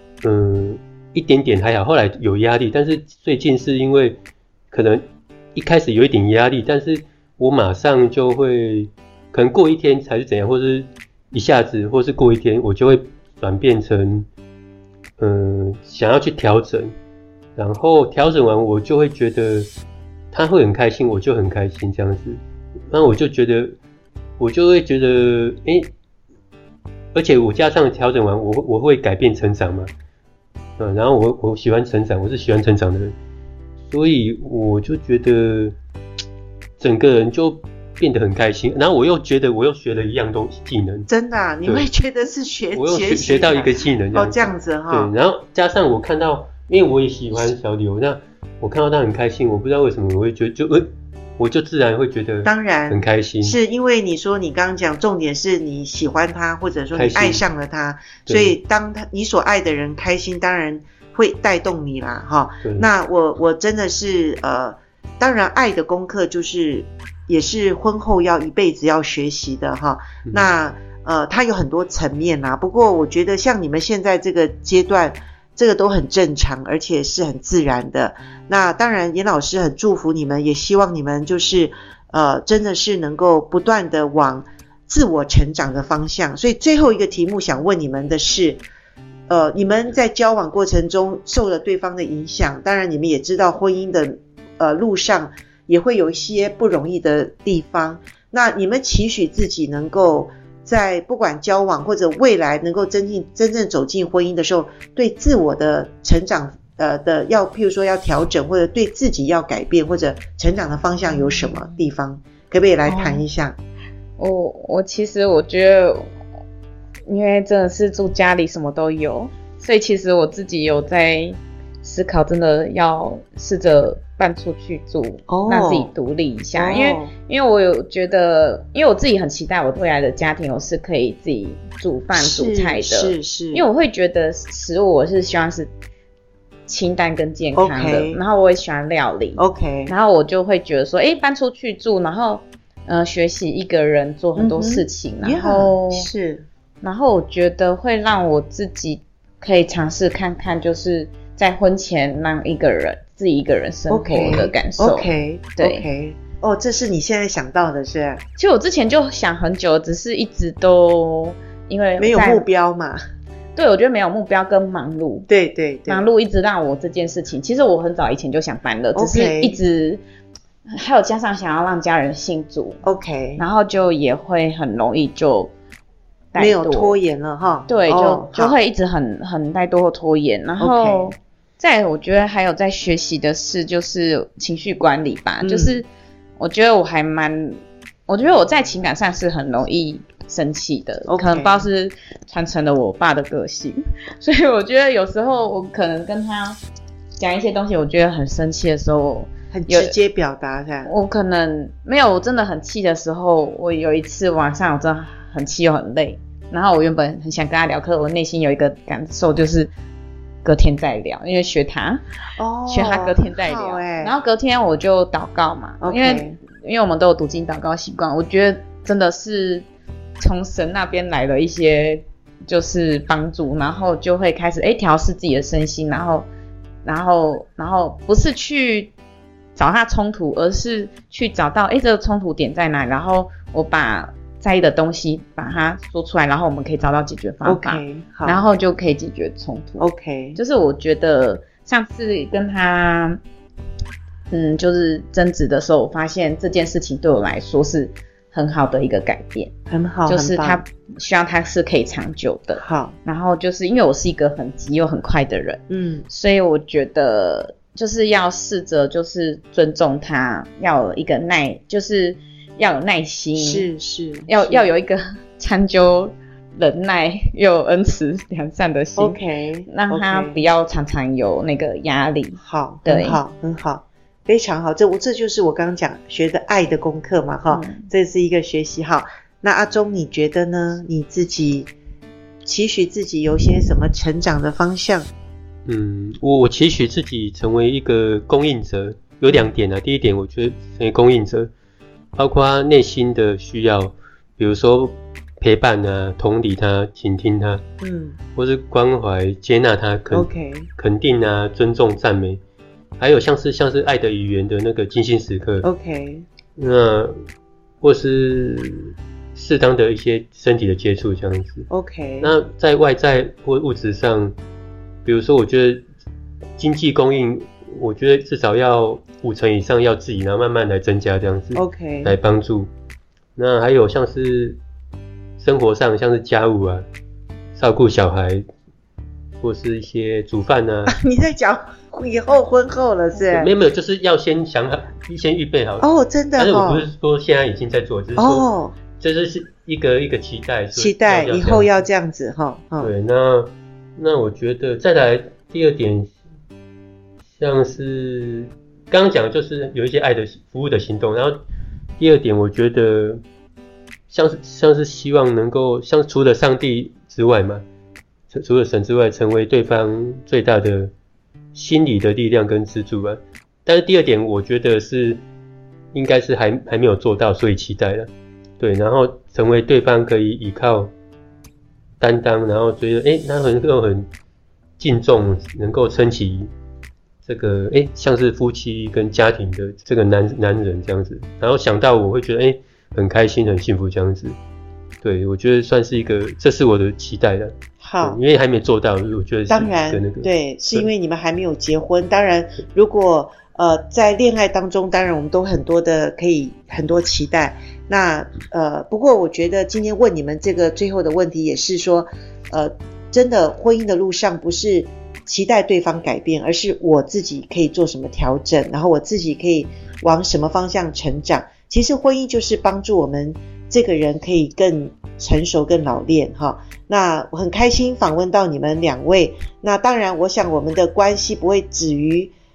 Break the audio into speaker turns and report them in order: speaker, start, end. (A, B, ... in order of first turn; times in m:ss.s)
0:00.2-0:04.2 A
0:04.7-0:05.0 A
0:05.5-0:14.3 A
0:15.2-0:16.9 A
0:17.6-0:19.7 A
0:20.3-0:23.8 A
0:24.4-0:25.9 A
0:27.1-0:29.9 A
0:30.8-0:33.1 A
0:33.9-0:35.7 A
0:36.8-0:41.1 A
0:41.1-0:45.1 B
0:42.7-0:53.6 A
0:52.4-1:28.6 B
0:56.9-0:57.4 A
0:58.3-0:58.6 A
1:10.2-1:10.5 A
1:29.3-1:53.6 B
1:51.1-1:51.8 C
1:52.8-1:53.2 C
1:54.2-1:56.1 C
1:57.1-2:15.7 C
2:05.3-2:05.9 B
2:06.5-2:07.1 B
2:12.1-2:13.6 B
2:16.7-2:26.1 C
2:17.5-2:18.2 B
2:19.4-2:19.9 B
2:24.4-2:26.4 B
2:26.8-2:35.8 C
2:33.9-2:38.2 B
2:38.4-2:42.4 C
2:42.0-2:43.0 B
2:43.5-2:45.3 C
2:45.3-2:46.0 B
2:45.9-2:50.0 C
2:48.9-2:49.6 B
2:50.7-2:52.8 C
2:52.8-2:53.4 B
2:53.4-2:55.5 C
2:56.3-2:57.0 C
2:56.4-2:58.6 B
2:57.7-3:05.9 C
3:00.6-3:01.1 B
3:05.4-3:05.8 B
3:06.4-3:16.6 C
3:11.1-3:11.6 B
3:17.2-3:19.9 C
3:19.5-3:20.9 B
3:20.8-3:29.7 C
3:30.4-3:32.0 C
3:32.4-3:34.1 B
3:32.7-3:39.6 C
3:35.8-3:36.4 B
3:40.2-3:46.3 C
3:46.8-3:48.9 C
3:49.5-4:03.2 C
3:57.4-3:58.4 B
3:59.8-4:00.4 B
4:04.3-4:09.5 C
4:09.7-4:10.6 B
4:10.1-4:23.7 C
4:12.6-4:13.0 B
4:15.7-4:16.0 B
4:23.4-4:24.7 B
4:24.3-4:33.2 C
4:29.0-4:30.4 B
4:32.4-4:41.7 B
4:37.5-4:37.9 C
4:42.4-4:45.1 B
4:45.6-4:51.5 A
4:52.1-4:57.6 A
4:57.8-4:58.2 B
4:58.4-5:02.4 A
5:00.1-5:00.7 B
5:03.0-5:05.7 A
5:05.6-5:06.2 B
5:06.6-5:07.2 A
5:07.8-5:11.7 A
5:11.7-5:12.3 B
5:12.2-5:14.3 A
5:15.0-5:15.8 A
5:16.6-5:22.7 A
5:21.5-5:22.2 B
5:23.4-5:24.6 A
5:25.4-5:26.8 A
5:27.5-5:28.4 A
5:29.4-5:30.9 A
5:30.9-5:33.5 B
5:33.3-5:38.4 A
5:35.8-5:36.9 B
5:38.2-5:38.8 B
5:39.0-5:41.7 A
5:40.7-5:42.9 B
5:42.8-5:46.1 A
5:47.4-5:51.4 A
5:52.0-5:53.2 A
5:54.1-5:57.6 A
5:58.3-6:00.9 A
6:01.5-6:05.2 A
6:05.9-6:10.9 A
6:12.0-6:14.1 A
6:14.8-6:16.5 A
6:17.2-6:24.4 A
6:25.0-6:30.9 A
6:27.8-6:28.2 B
6:29.5-7:02.3 B